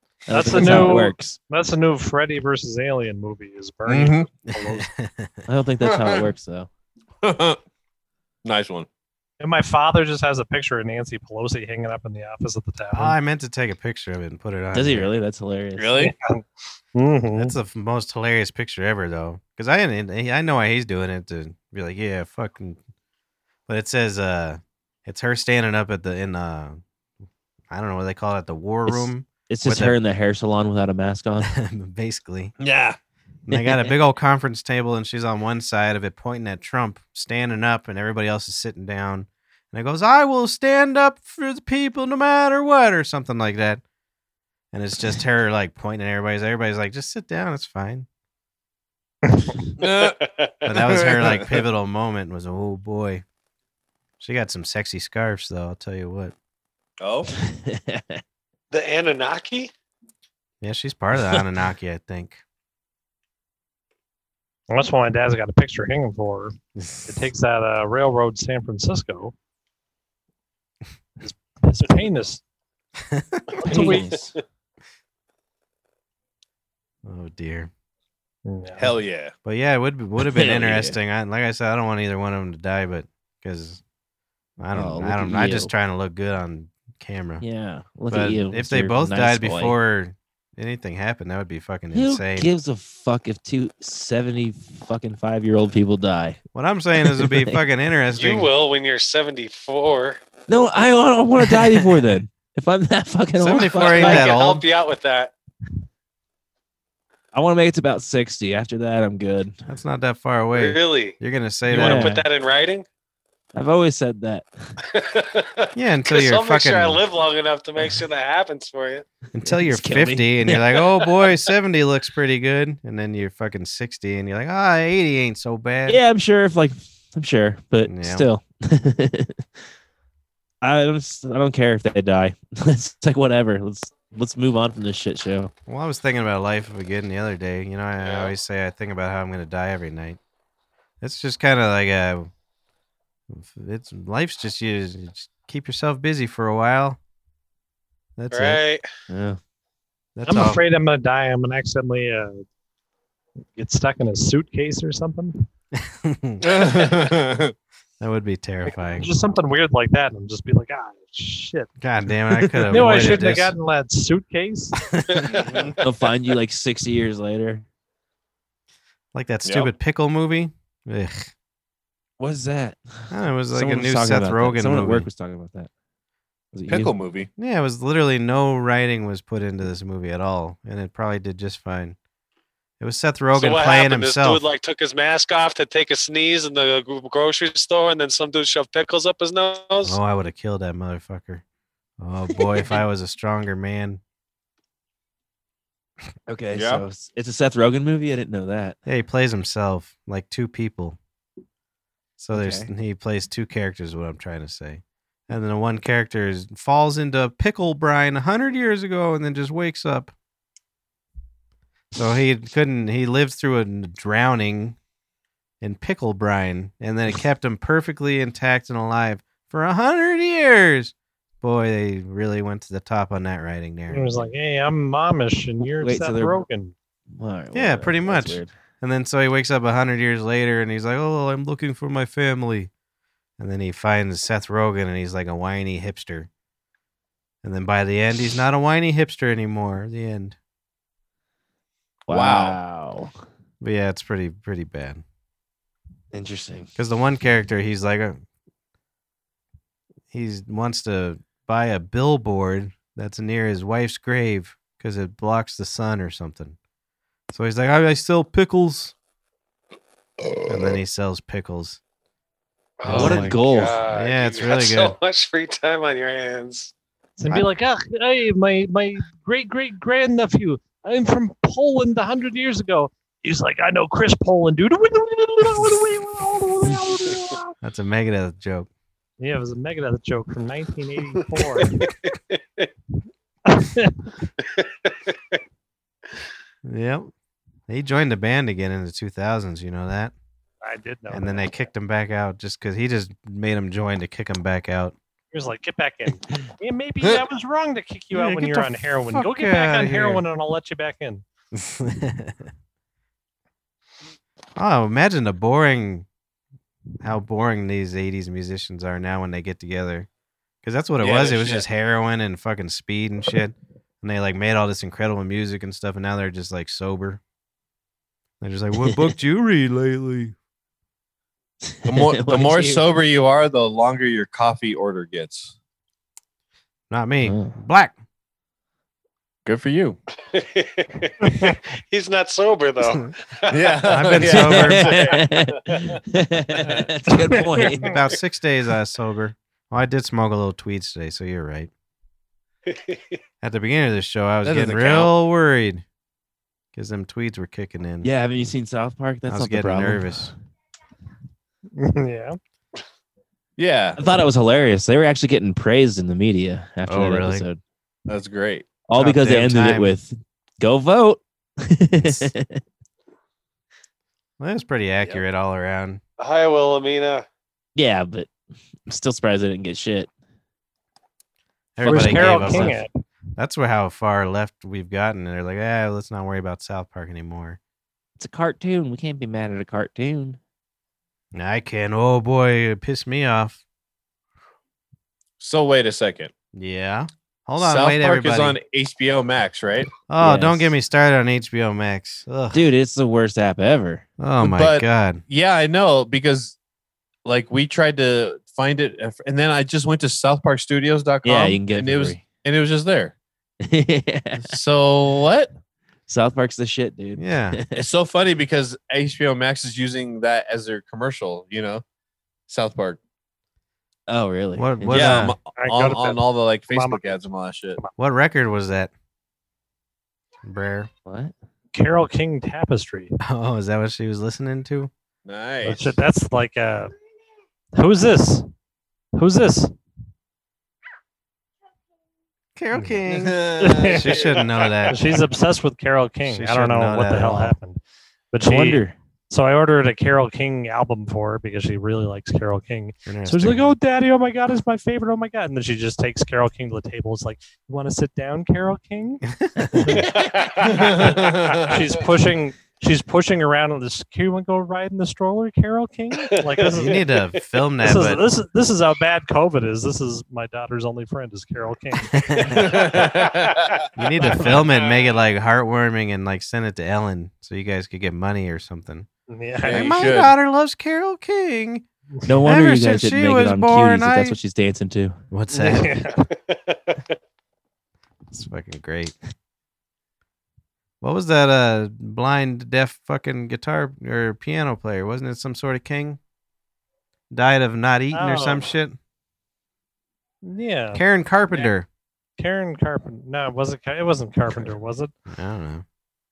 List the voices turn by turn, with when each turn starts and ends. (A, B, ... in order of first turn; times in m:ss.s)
0:00.3-0:01.4 A
0:00.3-0:04.9 B
0:03.8-0:04.3 C
0:04.5-0:05.4 D
0:05.5-0:06.7 A
0:05.8-0:06.3 C
0:07.2-0:07.6 C
0:08.4-0:08.9 C
0:09.4-0:13.2 B
0:12.9-0:15.1 D
0:14.7-0:16.1 A
0:15.8-0:16.1 C
0:16.0-0:16.4 B
0:16.9-0:17.5 B
0:17.3-0:22.8 D
0:23.7-0:26.8 D
0:27.7-0:30.0 D
0:28.9-0:31.5 A
0:31.4-0:32.5 D
0:32.6-0:33.0 C
0:33.5-0:43.8 D
0:33.5-0:33.9 A
0:44.7-0:48.1 D
0:49.8-0:50.2 C
0:50.0-0:50.5 E
0:50.6-0:53.2 D
0:50.8-0:51.6 C
0:54.2-0:56.3 D
0:57.0-0:57.3 C
0:57.4-0:58.2 A
0:58.7-0:59.7 E
1:00.6-1:02.4 D
1:04.7-1:09.3 B
1:06.8-1:07.1 D
1:11.2-1:12.4 B
1:13.1-1:13.4 D
1:13.6-1:14.2 B
1:13.6-1:14.3 A
1:17.0-1:17.7 D
1:18.4-1:18.9 B
1:18.8-1:19.3 C
1:19.4-1:23.8 D
1:20.2-1:21.0 A
1:24.6-1:27.4 D
1:24.7-1:25.7 A
1:27.4-1:29.8 A
1:28.1-1:32.5 D
1:31.9-1:36.4 A
1:36.5-1:38.5 D
1:37.0-1:37.6 A
1:38.1-1:40.2 E
1:40.5-1:44.3 A
1:41.4-1:42.2 D
1:43.4-1:44.6 D
1:43.7-1:45.3 E
1:47.3-1:49.6 A
1:49.7-1:52.1 D
1:50.5-1:51.2 E
1:51.7-1:52.2 A
1:51.7-1:52.8 E
1:53.5-1:54.5 A
1:54.9-1:59.0 E
1:55.7-1:57.0 D
1:59.3-2:06.0 D
1:59.5-2:00.7 A
2:05.9-2:09.4 A
2:07.8-2:08.3 D
2:10.6-2:15.5 A
2:15.7-2:20.2 D
2:18.0-2:18.3 E
2:21.0-2:22.3 D
2:23.3-2:27.0 D
2:28.2-2:28.6 D
2:28.3-2:28.8 E
2:29.1-2:29.4 A
2:30.2-2:30.6 D
2:30.3-2:32.4 B
2:33.6-2:35.4 B
2:35.7-2:37.1 D
2:36.4-2:37.5 C
2:38.0-2:39.1 D
2:39.0-2:41.7 B
2:41.8-2:43.5 D
2:42.7-2:44.8 B
2:42.7-2:43.1 A
2:44.9-2:45.4 D
2:45.3-2:45.8 C
2:45.8-2:47.6 A
2:49.1-2:51.3 D
2:49.4-2:49.7 C
2:52.2-2:55.7 A
2:53.1-2:55.1 D
2:56.5-2:56.9 A
2:56.7-2:57.3 C
2:57.4-3:02.0 D
3:02.8-3:04.4 D
3:03.3-3:10.0 E
3:09.8-3:11.4 D
3:12.0-3:14.0 D
3:16.3-3:18.8 A
3:16.5-3:16.8 C
3:18.8-3:21.0 D
3:22.2-3:30.1 D
3:22.3-3:22.7 A
3:31.9-3:34.8 D
3:35.6-3:44.3 D
3:43.9-3:46.7 B
3:45.8-3:46.4 A
3:47.1-3:48.5 A
3:47.5-3:52.7 D
3:53.4-3:56.3 D
3:57.4-4:00.4 D
4:02.1-4:03.1 A
4:02.1-4:02.6 C
4:03.6-4:05.0 D
4:06.1-4:06.7 A
4:06.8-4:08.2 D
4:10.1-4:16.6 D
4:17.3-4:18.9 D
4:20.5-4:21.8 D
4:22.8-4:26.7 E
4:22.8-4:25.0 D
4:22.9-4:23.8 A
4:27.2-4:37.5 B
4:37.6-4:38.7 D
4:39.2-4:41.8 B
4:43.5-4:44.1 B
4:44.6-4:44.9 E
4:46.6-4:47.1 D
4:47.7-4:50.1 D
4:50.6-4:51.5 B
4:51.1-4:55.0 D
4:55.3-5:01.2 B
4:58.1-5:00.2 D
5:01.5-5:02.5 D
5:04.6-5:06.1 D
5:07.0-5:10.1 D
5:10.6-5:17.2 D
5:11.0-5:11.6 C
5:18.4-5:20.3 D
5:21.6-5:22.8 A
5:21.8-5:25.5 C
5:26.9-5:28.0 D
5:27.2-5:27.6 A
5:29.4-5:30.0 C
5:30.3-5:34.4 E
5:31.2-5:31.5 B
5:33.5-5:34.9 C
5:33.9-5:35.1 D
5:34.2-5:37.9 A
5:34.9-5:35.2 E
5:37.1-5:37.7 B
5:37.8-5:41.7 D
5:42.7-5:43.2 E
5:43.4-5:45.8 D
5:44.4-5:45.1 C
5:46.7-5:48.1 D
5:48.0-5:50.3 A
5:49.3-5:50.3 D
5:51.7-5:52.4 B
5:53.6-5:54.0 C
5:54.0-5:57.6 A
5:56.8-5:57.5 D
5:58.1-5:58.8 C
5:58.8-6:02.6 A
5:58.9-5:59.9 D
6:02.0-6:02.3 D
6:04.4-6:06.0 D
6:06.2-6:07.2 E
6:07.7-6:08.3 A
6:08.9-6:10.1 A
6:11.8-6:12.8 D
6:11.8-6:13.0 B
6:11.8-6:12.8 A
6:13.4-6:17.6 D
6:18.2-6:20.4 A
6:21.3-6:23.6 D
6:25.4-6:26.3 C
6:26.5-6:28.6 D
6:27.6-6:29.9 C
6:30.1-6:32.6 D
6:30.2-6:30.7 A
6:32.5-6:34.0 A
6:34.2-6:35.2 D
6:34.4-6:36.6 C
6:37.2-6:43.1 C
6:41.2-6:42.3 A
6:43.6-6:44.6 A
6:44.4-6:45.5 C
6:46.1-6:47.8 A
6:47.2-6:47.6 D
6:47.8-6:51.8 C
6:52.5-6:53.0 C
6:54.1-6:55.3 A
6:54.6-6:55.3 D
6:54.9-6:57.8 C
6:55.6-6:57.2 B
6:58.0-6:58.9 D
7:00.4-7:00.9 D
7:01.0-7:01.3 A
7:01.7-7:03.1 B
7:03.2-7:04.9 D
7:05.2-7:05.9 C
7:05.6-7:06.9 B
7:07.7-7:08.5 B
7:09.1-7:09.7 B
7:12.6-7:15.0 D
7:13.1-7:14.8 C
7:13.6-7:14.1 B
7:14.9-7:17.8 B
7:16.3-7:17.6 D
7:18.3-7:37.0 B
7:18.4-7:19.0 A
7:23.0-7:23.7 D
7:29.4-7:30.0 D
7:30.0-7:30.9 E
7:30.6-7:31.7 C
7:36.6-7:36.9 E
7:36.7-7:38.2 D
7:37.8-7:42.5 B
7:42.1-7:42.7 D
7:42.5-7:43.7 C
7:42.9-7:43.7 E
7:44.0-7:49.1 D
7:44.2-7:44.6 B
7:49.3-7:50.0 B
7:49.6-7:50.3 C
7:49.7-7:51.8 D
7:52.2-7:55.2 A
7:52.4-7:54.4 D
7:55.3-7:56.1 D
7:55.5-7:56.2 B
7:56.5-7:57.0 E
7:58.3-7:59.1 D
8:01.0-8:06.2 D
8:07.3-8:09.0 D
8:08.1-8:08.7 B
8:10.4-8:11.0 B
8:10.9-8:11.9 D
8:12.4-8:15.1 B
8:14.5-8:14.7 D
8:15.3-8:15.8 D